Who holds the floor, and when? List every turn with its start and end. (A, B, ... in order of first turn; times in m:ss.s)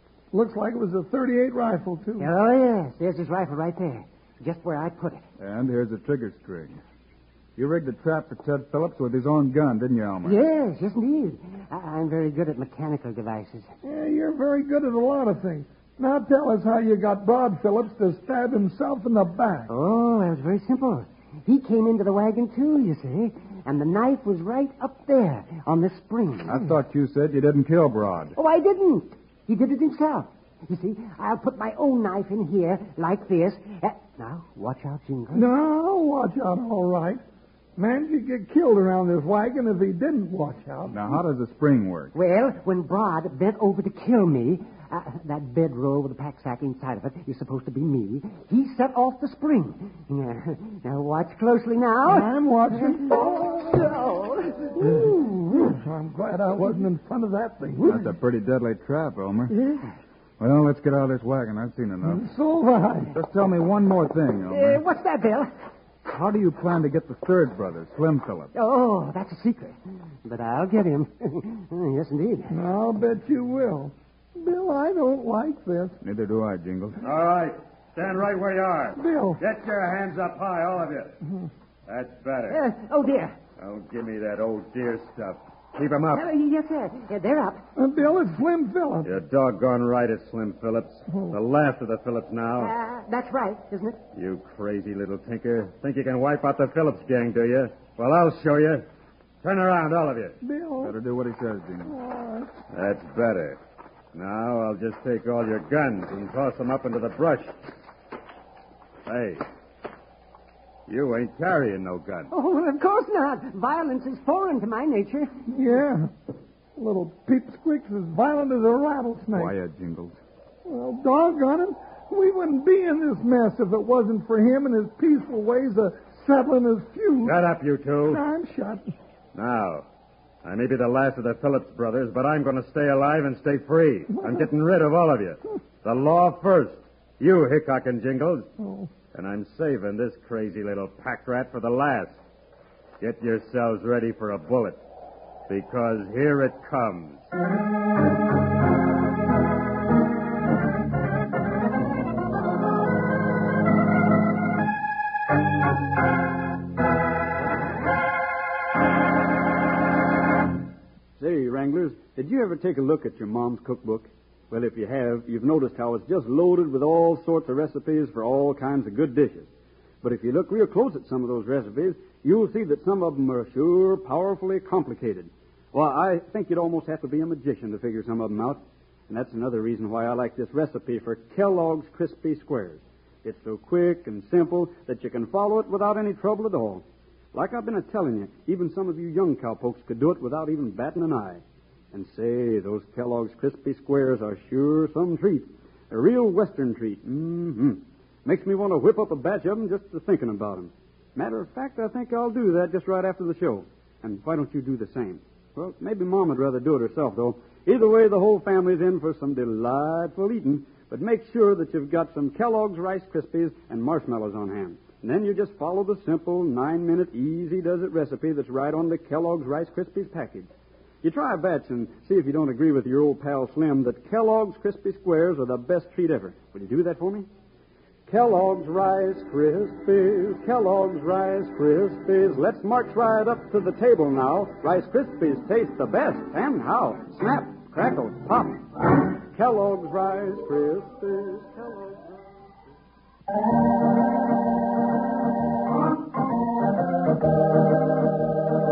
0:00.3-0:02.3 A
0:02.2-0:05.2 B
0:05.4-0:06.8 C
0:07.6-0:10.4 C
0:10.2-0:13.7 B
0:13.8-0:19.7 A
0:19.7-0:26.6 B
0:26.4-0:28.3 C
0:28.4-0:35.5 B
0:35.3-0:37.2 A
0:37.8-0:41.1 A
0:40.9-0:42.1 C
0:42.1-0:55.1 B
0:52.0-0:53.5 A
0:54.8-0:58.1 A
0:57.8-0:59.5 C
0:59.5-0:59.9 B
1:00.4-1:02.2 C
1:02.0-1:03.1 A
1:03.1-1:04.8 C
1:04.5-1:05.5 B
1:06.1-1:08.5 C
1:08.5-1:12.5 B
1:12.5-1:16.0 A
1:16.0-1:17.0 C
1:17.0-1:21.1 D
1:19.0-1:19.4 A
1:21.9-1:22.6 D
1:22.5-1:23.4 B
1:23.6-1:26.2 D
1:26.1-1:27.6 B
1:27.8-1:29.1 A
1:29.0-1:32.7 D
1:31.1-1:31.4 A
1:32.6-1:34.0 B
1:34.1-1:38.8 D
1:39.4-1:40.4 D
1:40.4-1:41.0 A
1:40.8-1:41.9 C
1:41.8-1:42.5 A
1:42.7-1:43.6 D
1:44.1-1:47.5 D
1:49.0-1:49.4 D
1:50.9-1:52.3 D
1:52.3-1:55.3 B
1:55.5-1:56.1 A
1:56.8-1:59.6 A
1:59.3-2:00.2 C
2:00.6-2:07.4 A
2:07.2-2:08.2 D
2:08.0-2:08.9 A
2:09.3-2:09.8 D
2:10.4-2:18.5 D
2:14.1-2:14.5 A
2:18.6-2:18.9 A
2:19.1-2:22.2 D
2:23.0-2:24.8 D
2:25.5-2:27.3 D
2:41.2-2:49.5 E
2:50.0-3:11.4 E
3:11.9-3:40.5 E
3:41.0-3:47.3 E
3:48.1-4:02.0 E